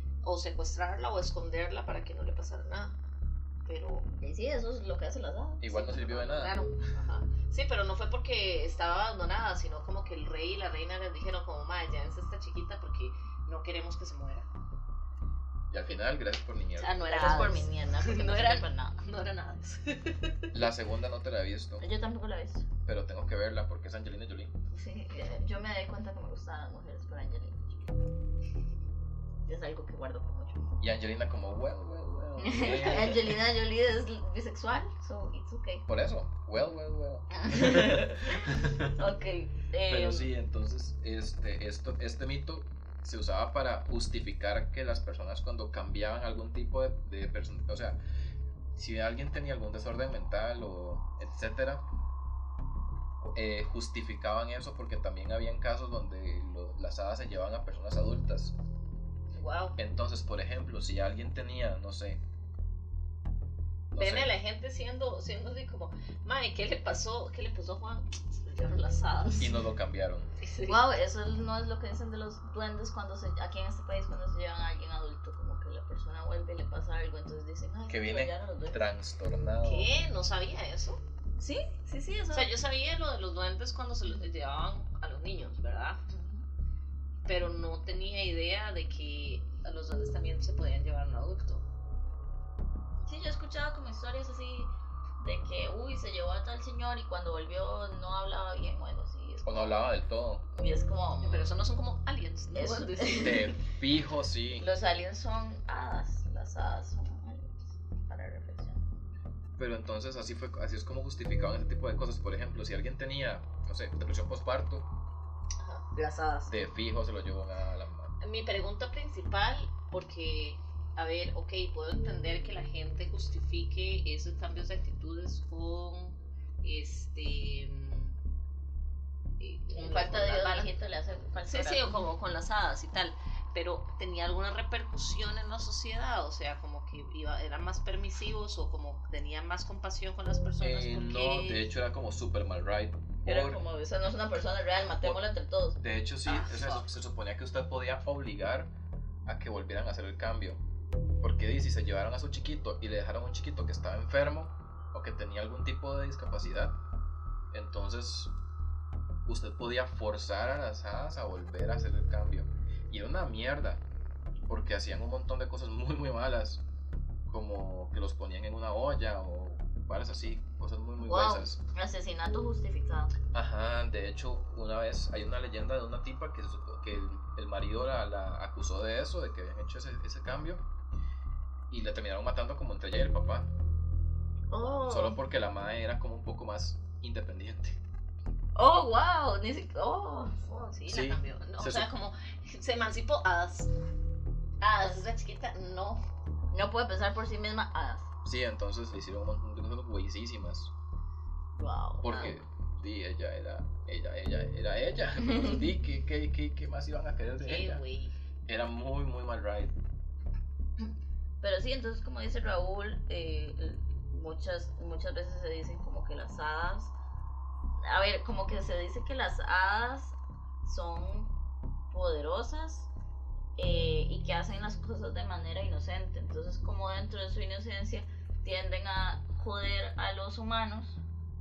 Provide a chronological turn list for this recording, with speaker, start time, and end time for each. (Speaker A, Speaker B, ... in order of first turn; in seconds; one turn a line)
Speaker A: 0.2-3.0
Speaker A: 3.6-4.1
Speaker B: 4.1-5.9
Speaker C: 5.6-6.6
Speaker A: 5.8-14.5
Speaker C: 15.7-17.0
Speaker A: 16.8-20.7
Speaker B: 17.1-19.0
Speaker C: 20.5-21.8
Speaker B: 21.8-22.7
Speaker C: 22.9-24.5
Speaker B: 24.7-27.9
Speaker B: 29.5-30.6
Speaker C: 30.8-33.4
Speaker B: 32.4-35.9
Speaker C: 35.9-39.0
Speaker B: 37.3-40.3
Speaker C: 39.9-48.0
Speaker C: 48.7-51.8
Speaker C: 53.2-58.5
Speaker A: 59.4-59.8
Speaker C: 59.8-62.2
Speaker C: 63.9-64.3
Speaker A: 64.0-69.5
Speaker C: 69.4-70.3
Speaker A: 70.4-70.8
Speaker B: 70.7-78.9
Speaker C: 77.9-79.9
Speaker A: 79.6-81.0
Speaker B: 81.4-82.5
Speaker A: 82.3-86.0
Speaker B: 86.1-86.4
Speaker A: 87.2-91.7
Speaker B: 93.0-99.8
Speaker C: 99.5-100.5
Speaker B: 100.5-101.6
Speaker A: 101.2-103.6
Speaker B: 102.5-103.5
Speaker C: 103.2-104.7
Speaker B: 104.6-108.8
Speaker C: 109.6-114.9
Speaker A: 115.6-116.5
Speaker B: 116.0-116.5
Speaker C: 116.5-118.2
Speaker A: 118.2-128.2
Speaker A: 129.4-130.7
Speaker B: 129.7-131.9
Speaker A: 131.4-141.7
Speaker C: 140.6-143.6
Speaker B: 143.2-145.8
Speaker C: 145.8-148.7
Speaker A: 146.3-146.9
Speaker C: 149.3-150.6
Speaker C: 151.2-156.8
Speaker C: 157.5-158.3
Speaker C: 159.3-163.8
Speaker C: 164.5-166.6
Speaker C: 167.3-171.6
Speaker B: 171.0-173.1
Speaker C: 173.3-180.6
Speaker C: 181.7-183.5
Speaker B: 184.5-185.2
Speaker C: 184.8-187.8
Speaker B: 188.6-190.8
Speaker A: 190.6-193.7
Speaker C: 190.9-191.9
Speaker A: 194.6-196.0
Speaker B: 196.5-198.1
Speaker C: 198.2-200.7
Speaker B: 201.6-202.4
Speaker C: 202.0-207.8
Speaker A: 207.4-208.1
Speaker C: 208.5-209.7
Speaker B: 211.4-216.9
Speaker B: 217.8-221.3
Speaker B: 221.9-222.9
Speaker B: 223.6-231.0